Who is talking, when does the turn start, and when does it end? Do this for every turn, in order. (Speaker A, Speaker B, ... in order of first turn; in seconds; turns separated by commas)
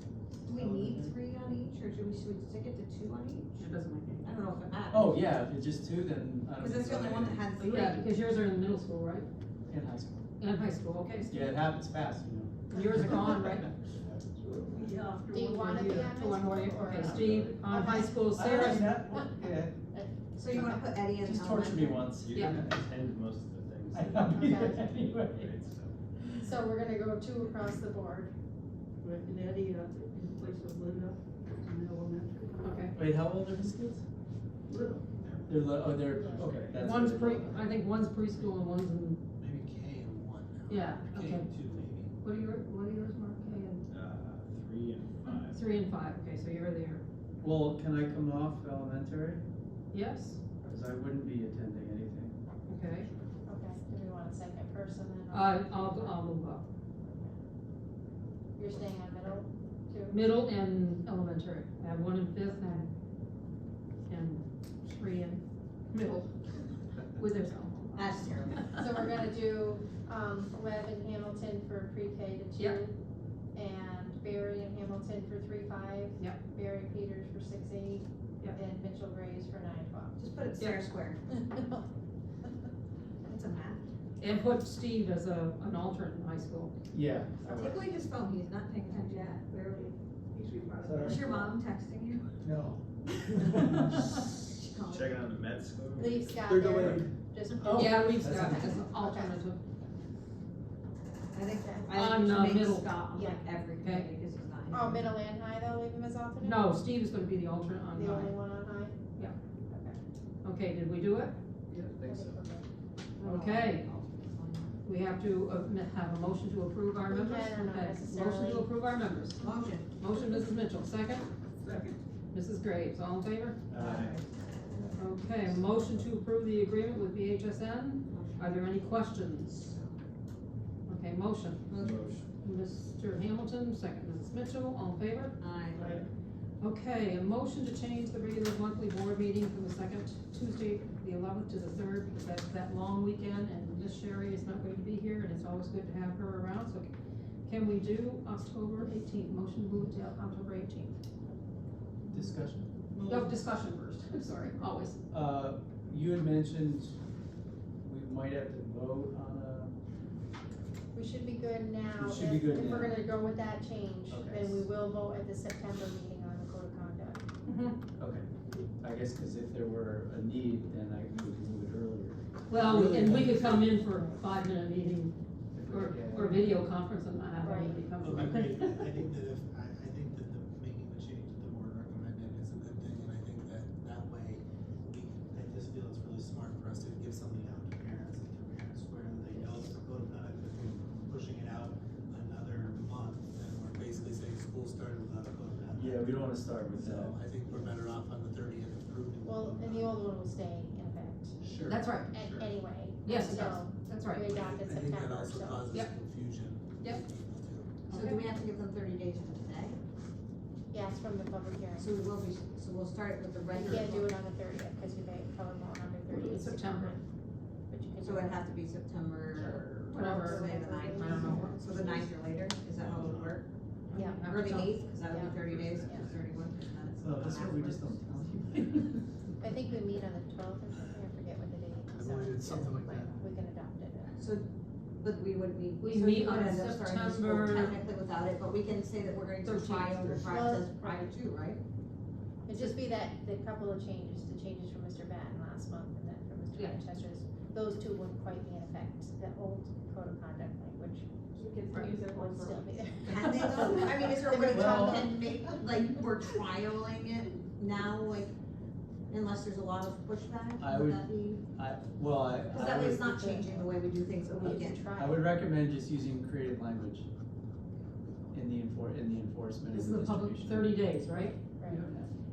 Speaker A: 0.4-3.7, Speaker B: 0.5-1.1, Speaker C: 3.6-4.3, Speaker A: 4.2-5.2, Speaker B: 4.9-7.5, Speaker A: 6.6-8.1, Speaker C: 7.6-9.3, Speaker B: 9.7-10.2, Speaker C: 10.4-11.5, Speaker B: 11.3-13.7, Speaker C: 12.7-13.7, Speaker D: 14.4-16.1, Speaker E: 15.3-20.9, Speaker C: 15.7-18.9, Speaker B: 17.0-19.7, Speaker A: 20.4-22.1, Speaker B: 21.2-25.5, Speaker F: 22.2-25.9, Speaker C: 22.3-22.6, Speaker E: 24.3-24.9, Speaker E: 26.4-28.3, Speaker C: 29.0-30.6, Speaker D: 29.0-32.8, Speaker C: 32.5-33.0, Speaker B: 32.9-34.0, Speaker D: 34.7-35.0, Speaker F: 35.2-35.6, Speaker B: 35.5-37.6, Speaker E: 36.1-36.5, Speaker F: 36.4-36.8, Speaker C: 36.8-39.2, Speaker G: 39.3-42.1, Speaker C: 40.7-43.8, Speaker F: 43.9-45.7, Speaker C: 45.2-47.0, Speaker B: 47.4-49.4, Speaker C: 49.9-50.4, Speaker B: 50.6-52.4, Speaker C: 52.7-53.1, Speaker E: 53.5-56.3, Speaker C: 55.3-56.6, Speaker E: 57.0-57.4, Speaker E: 58.5-60.2, Speaker C: 60.1-62.9, Speaker C: 64.1-68.7, Speaker A: 67.9-68.6, Speaker E: 68.7-73.0, Speaker E: 73.5-80.2, Speaker A: 80.2-81.2, Speaker E: 81.3-81.8, Speaker A: 83.2-83.8, Speaker C: 84.2-86.7, Speaker B: 86.9-87.9, Speaker A: 87.5-89.9, Speaker D: 89.1-89.8, Speaker D: 90.3-91.5, Speaker B: 90.8-91.3, Speaker A: 91.0-92.3, Speaker B: 92.4-93.9, Speaker A: 94.5-95.2, Speaker F: 94.9-96.5, Speaker E: 96.0-99.4, Speaker G: 96.5-97.1, Speaker C: 97.7-99.6, Speaker B: 97.7-98.7, Speaker A: 101.3-105.0, Speaker E: 101.6-101.9, Speaker C: 101.9-103.0, Speaker E: 103.1-103.4, Speaker C: 103.8-104.1, Speaker E: 104.7-106.7, Speaker C: 106.4-108.4, Speaker E: 107.9-109.0, Speaker E: 109.7-110.0, Speaker C: 110.4-111.3, Speaker F: 111.7-112.4, Speaker E: 112.0-112.7, Speaker A: 113.2-114.8, Speaker C: 113.2-113.8, Speaker C: 114.8-121.3, Speaker E: 117.0-118.7, Speaker A: 119.4-119.9, Speaker C: 122.3-123.7, Speaker B: 123.7-124.1, Speaker A: 123.8-124.2, Speaker C: 125.0-129.7, Speaker A: 128.1-128.9, Speaker C: 130.9-131.7, Speaker A: 131.7-132.1, Speaker C: 132.4-135.3, Speaker A: 135.4-136.0, Speaker C: 136.6-146.9, Speaker C: 147.4-151.0, Speaker B: 152.1-152.8, Speaker C: 153.0-155.0, Speaker B: 155.1-157.0, Speaker B: 157.8-159.8, Speaker E: 160.9-167.2, Speaker B: 162.0-163.1, Speaker B: 164.1-164.6, Speaker C: 167.4-167.8, Speaker B: 168.0-168.3, Speaker B: 168.8-173.8, Speaker C: 172.5-179.0, Speaker E: 173.8-174.2, Speaker B: 175.5-176.6, Speaker E: 177.4-177.8, Speaker G: 178.0-200.0, Speaker B: 195.7-197.7, Speaker E: 199.2-201.4, Speaker G: 201.4-201.8, Speaker C: 201.6-202.1, Speaker E: 202.1-205.7, Speaker C: 203.0-204.3, Speaker G: 204.2-207.7, Speaker C: 207.8-208.3, Speaker A: 207.9-209.8, Speaker E: 210.7-211.9, Speaker A: 211.8-214.1, Speaker C: 213.5-214.0, Speaker E: 213.5-217.0, Speaker C: 216.1-217.0, Speaker E: 217.7-218.5, Speaker A: 218.0-223.5, Speaker C: 219.3-221.7, Speaker E: 219.8-221.6, Speaker G: 221.7-222.1, Speaker G: 222.7-223.4, Speaker C: 223.9-224.8, Speaker E: 223.9-226.1, Speaker A: 224.2-228.1, Speaker G: 225.4-226.3, Speaker B: 227.0-229.0, Speaker E: 229.4-234.2, Speaker G: 231.9-233.1, Speaker A: 234.2-241.6, Speaker C: 235.8-237.8, Speaker C: 239.4-240.3, Speaker E: 240.2-241.1, Speaker E: 242.4-251.1, Speaker C: 246.5-246.8, Speaker D: 251.4-252.8, Speaker C: 251.7-252.2, Speaker E: 251.8-255.6, Speaker A: 253.0-258.3, Speaker B: 254.5-255.0, Speaker A: 259.1-261.4, Speaker B: 260.6-263.1, Speaker A: 262.5-264.9, Speaker E: 262.5-265.3, Speaker B: 264.4-267.1, Speaker A: 267.7-268.3, Speaker B: 268.3-270.7, Speaker C: 269.7-271.4, Speaker E: 271.6-271.8, Speaker B: 271.6-272.1